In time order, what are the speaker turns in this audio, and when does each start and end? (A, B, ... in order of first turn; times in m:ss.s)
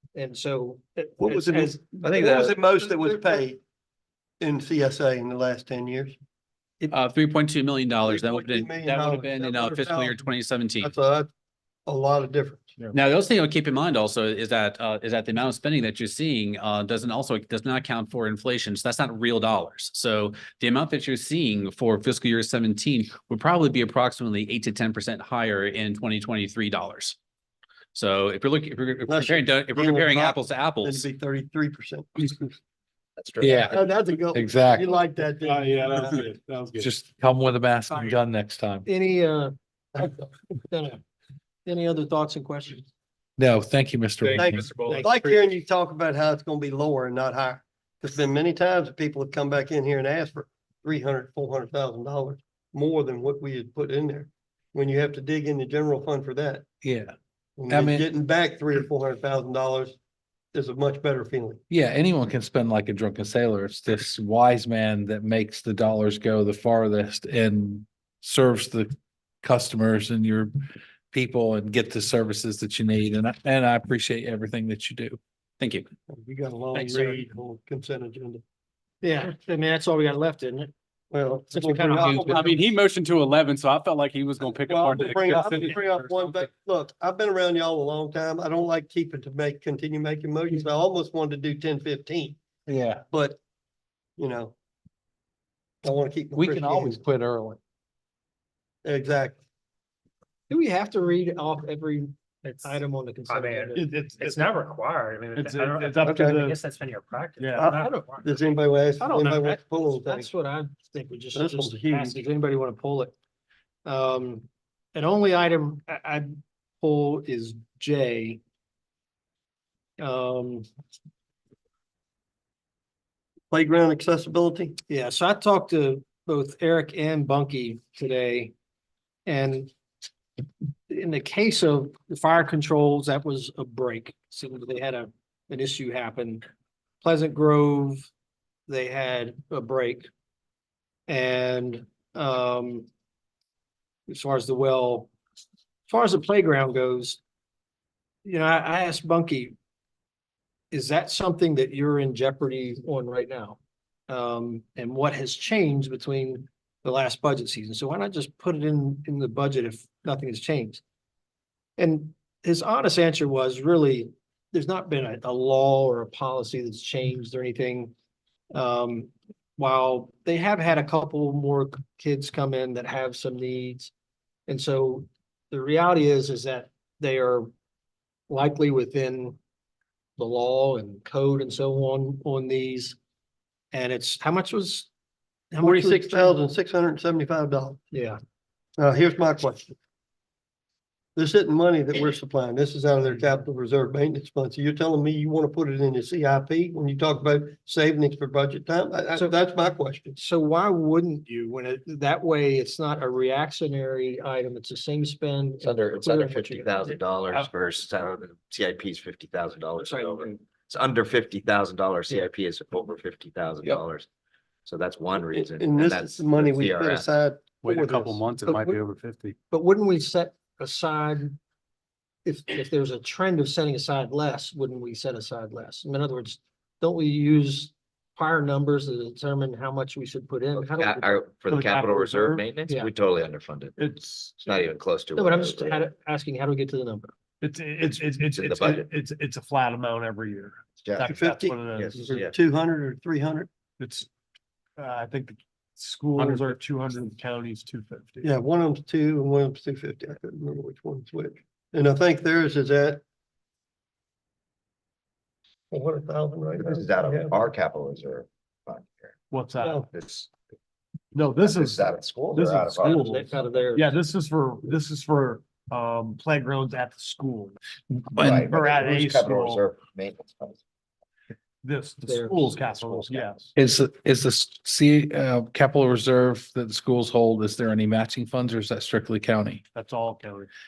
0:00.1-0:03.4 A
0:01.2-0:03.6 B
0:04.4-0:06.2 B
0:06.9-0:10.9 C
0:08.0-0:11.3 B
0:11.8-0:12.9 B
0:12.9-0:27.2 C
0:27.9-0:31.1 C
0:29.1-0:32.5 B
0:33.2-0:33.7 D
0:33.4-0:33.8 E
0:33.7-0:36.3 B
0:34.3-0:34.9 E
0:35.4-0:36.9 F
0:36.8-0:38.8 E
0:37.9-0:38.1 A
0:38.8-0:41.0 A
0:41.6-0:42.9 A
0:43.4-0:44.8 E
0:44.2-0:45.2 F
0:44.4-0:56.6 B
0:44.8-0:45.3 A
0:56.8-0:57.1 E
0:57.6-1:00.0 B
0:57.7-0:58.0 E
1:00.5-1:01.6 B
1:01.7-1:10.5 E
1:11.1-1:15.2 E
1:15.6-1:15.8 C
1:16.1-1:18.4 B
1:16.7-1:17.2 A
1:19.0-1:20.7 A
1:21.1-1:22.6 B
1:21.5-1:22.6 A
1:22.1-1:26.3 C
1:24.7-1:32.4 B
1:32.7-1:33.0 E
1:33.1-1:33.4 B
1:34.2-1:34.5 B
1:35.8-1:37.0 B
1:36.3-1:37.6 E
1:38.8-1:39.4 B
1:40.5-1:44.3 A
1:43.3-1:43.7 G
1:43.7-1:44.6 F
1:44.2-1:47.5 G
1:45.3-1:46.6 F
1:46.0-1:46.4 B
1:47.4-1:47.8 F
1:47.6-1:50.3 B
1:47.6-1:48.3 A
1:49.0-1:53.1 A
1:51.3-1:52.2 B
1:53.8-1:58.4 A
2:00.0-2:00.6 A
2:03.5-2:04.8 B
2:04.9-2:08.5 A
2:09.2-2:09.7 A
2:10.9-2:16.4 A
2:17.0-2:18.1 A
2:18.7-2:20.1 A
2:21.1-2:22.9 A
2:24.1-2:25.1 A
2:25.9-2:27.2 A
2:28.2-2:29.5 A
2:30.7-2:40.8 A
2:41.8-2:47.9 A
2:48.5-2:53.9 A
2:54.5-2:57.5 A
2:58.3-2:59.4 A
3:00.2-3:03.0 A
3:03.7-3:04.9 A
3:05.5-3:06.4 A
3:05.6-3:07.8 B
3:07.9-3:08.2 A
3:08.8-3:09.8 B
3:11.2-3:20.2 B
3:20.2-3:27.0 A
3:25.6-3:34.1 D
3:29.8-3:30.4 A
3:34.6-3:37.1 D
3:35.2-3:38.2 B
3:37.6-3:39.3 C
3:38.4-3:38.8 A
3:39.5-3:41.4 A
3:42.2-3:51.2 A
3:50.5-3:55.9 D
3:51.5-3:52.4 F
3:53.8-3:54.3 F
3:55.2-3:57.1 A
3:57.4-4:02.1 F
3:58.3-3:58.9 D
4:00.8-4:01.2 D
4:01.0-4:03.5 B
4:01.7-4:02.3 D
4:03.8-4:04.1 F
4:04.8-4:08.3 F
4:06.2-4:06.4 B
4:08.2-4:13.0 B
4:15.7-4:17.4 B
4:16.6-4:19.2 D
4:19.3-4:19.8 F
4:19.6-4:19.8 B
4:19.9-4:20.3 D
4:21.1-4:27.6 F
4:21.4-4:23.1 D
4:22.8-4:24.0 A
4:27.9-4:28.4 E
4:28.2-4:30.6 D
4:28.2-4:29.6 F
4:31.6-4:33.5 F
4:32.0-4:33.3 A
4:33.5-4:39.6 E
4:39.7-4:40.5 F